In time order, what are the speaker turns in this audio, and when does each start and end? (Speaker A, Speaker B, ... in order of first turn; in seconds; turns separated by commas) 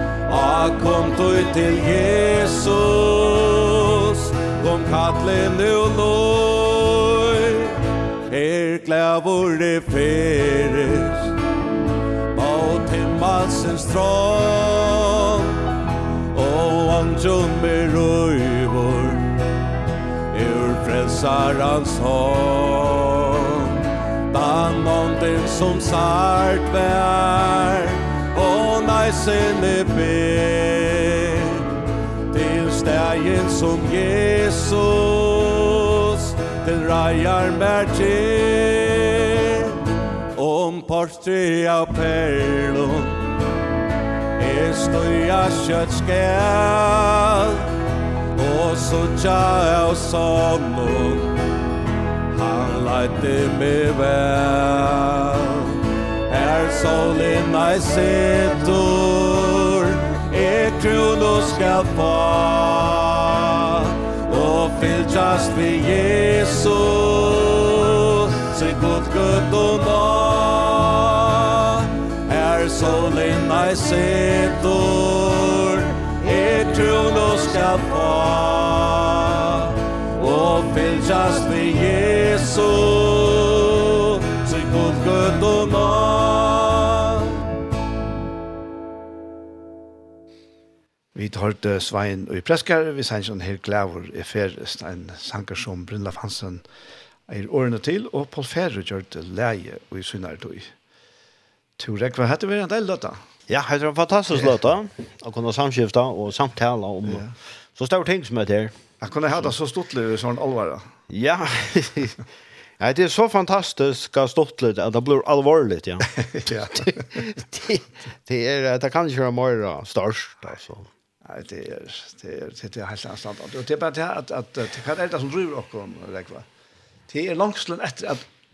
Speaker A: 0.3-7.8, Speaker A: 8.3-11.3, Speaker A: 12.3-15.6, Speaker A: 16.3-19.2, Speaker A: 20.3-31.7, Speaker A: 32.3-39.7, Speaker A: 40.4-43.2, Speaker A: 44.4-47.6, Speaker A: 48.4-51.3, Speaker A: 52.3-55.8, Speaker A: 56.3-87.2, Speaker B: 91.2-96.7, Speaker B: 97.3-100.7, Speaker B: 101.8-103.2, Speaker C: 103.5-108.8, Speaker B: 107.1-107.3, Speaker B: 109.0-110.8, Speaker C: 111.1-112.2, Speaker C: 112.8-120.9, Speaker B: 116.1-117.3, Speaker B: 121.2-126.5, Speaker B: 127.1-128.3